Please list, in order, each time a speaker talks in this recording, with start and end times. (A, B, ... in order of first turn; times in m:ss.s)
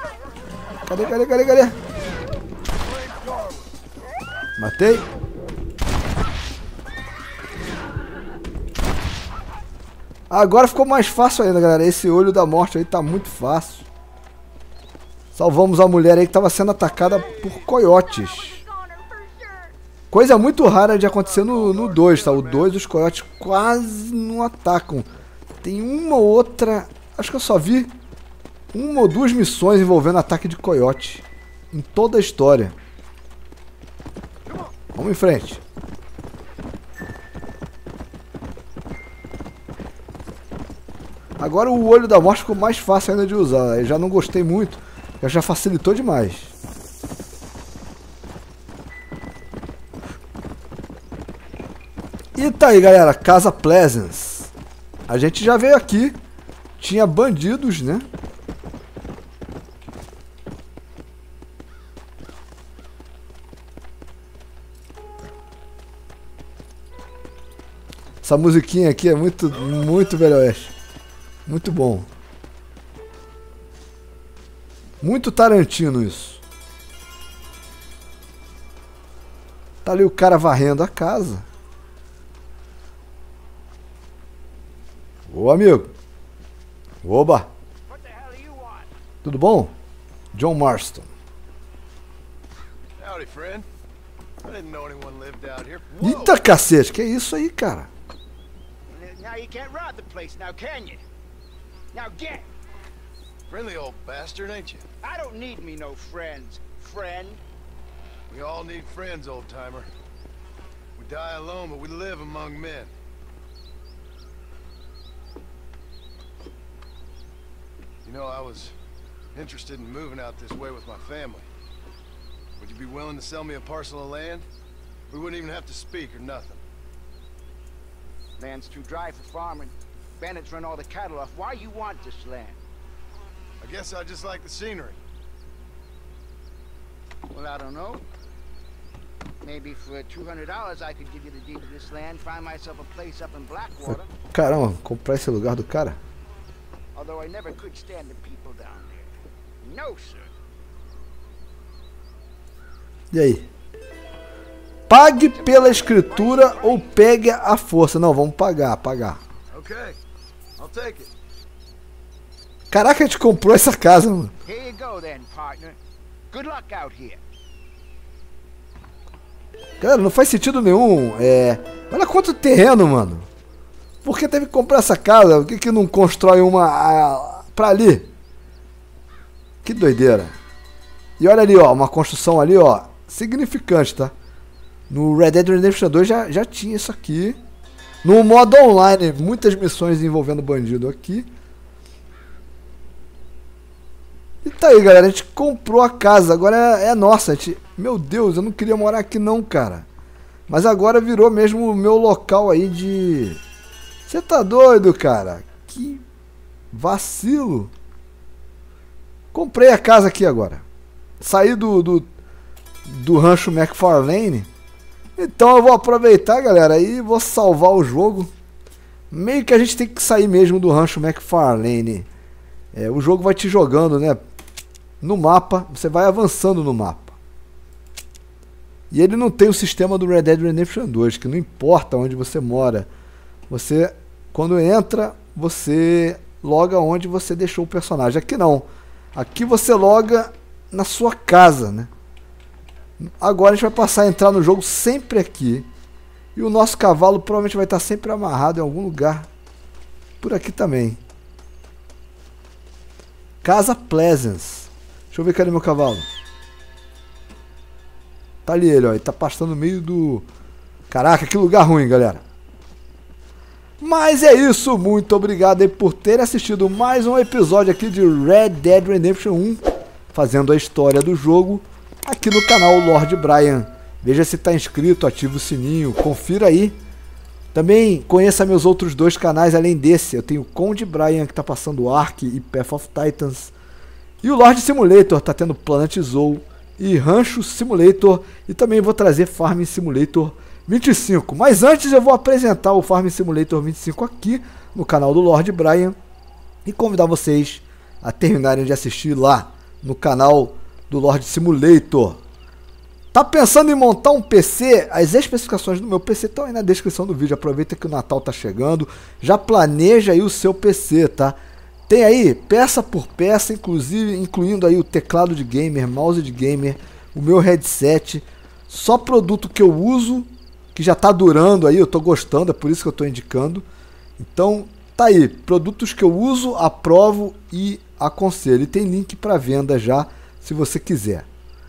0:00.9-0:01.8 A
0:04.6-0:05.1 A
0:10.3-0:13.9 A
0:15.3-0:18.6 A
0:17.0-0:17.5 B
0:18.8-0:19.7 C
0:20.1-0:25.1 A
0:20.7-0:22.7 B
0:25.6-0:27.9 A
0:28.7-0:32.8 A
0:35.0-0:35.6 A
0:41.4-0:46.5 A
0:52.4-0:54.5 A
0:55.1-0:56.2 A
0:56.8-0:58.1 A
1:08.2-1:10.7 A
1:11.5-1:12.1 A
1:15.0-1:16.4 A
1:19.8-1:21.5 A
1:25.3-1:25.9 A
1:27.0-1:27.5 A
1:27.9-1:28.9 C
1:29.2-1:29.7 A
1:30.3-1:31.1 A
1:33.0-1:33.7 B
1:34.4-1:36.4 B
1:36.0-1:37.9 A
1:38.9-1:41.0 C
1:41.9-1:42.5 C
1:43.5-1:44.8 B
1:45.0-1:47.4 C
1:48.3-1:49.9 B
1:51.0-1:52.9 B
1:58.0-1:58.7 B
1:59.3-2:01.5 B
2:02.6-2:04.4 B
2:05.1-2:06.6 B
2:08.4-2:12.6 C
2:13.6-2:15.0 B
2:17.3-2:18.0 C
2:19.4-2:24.1 C
2:24.3-2:26.0 A
2:27.0-2:30.3 C
2:33.1-2:33.5 A
2:34.9-2:39.2 A
2:35.3-2:37.0 C
2:39.5-2:40.0 B
2:40.6-2:41.1 B
2:42.7-2:44.3 A
2:44.5-2:45.8 C
2:46.3-2:47.2 C
2:49.8-2:53.3 A
2:54.0-2:58.1 A
2:59.6-3:00.4 A
3:01.2-3:04.1 A
3:04.9-3:07.4 A
3:08.0-3:11.3 A
3:14.4-3:19.9 A
3:20.5-3:23.4 A
3:24.1-3:26.0 A
3:26.7-3:27.7 A
3:29.3-3:30.6 A
3:31.2-3:32.1 A
3:32.9-3:34.5 A
3:35.2-3:38.3 A
3:39.1-3:42.1 A
3:42.7-3:44.2 A
3:45.0-3:47.2 A
3:48.9-3:52.9 A
3:53.5-4:01.9 A
4:03.0-4:05.7 A
4:06.4-4:09.3 A
4:10.2-4:11.0 A
4:13.4-4:16.1 A
4:18.5-4:20.3 A
4:20.9-4:22.2 A
4:23.8-4:29.6 A
4:30.1-4:36.8 A
4:37.5-4:43.5 A
4:44.2-4:56.0 A
4:56.6-5:02.2 A
5:03.1-5:11.4 A
5:11.9-5:23.6 A
5:24.2-5:31.3 A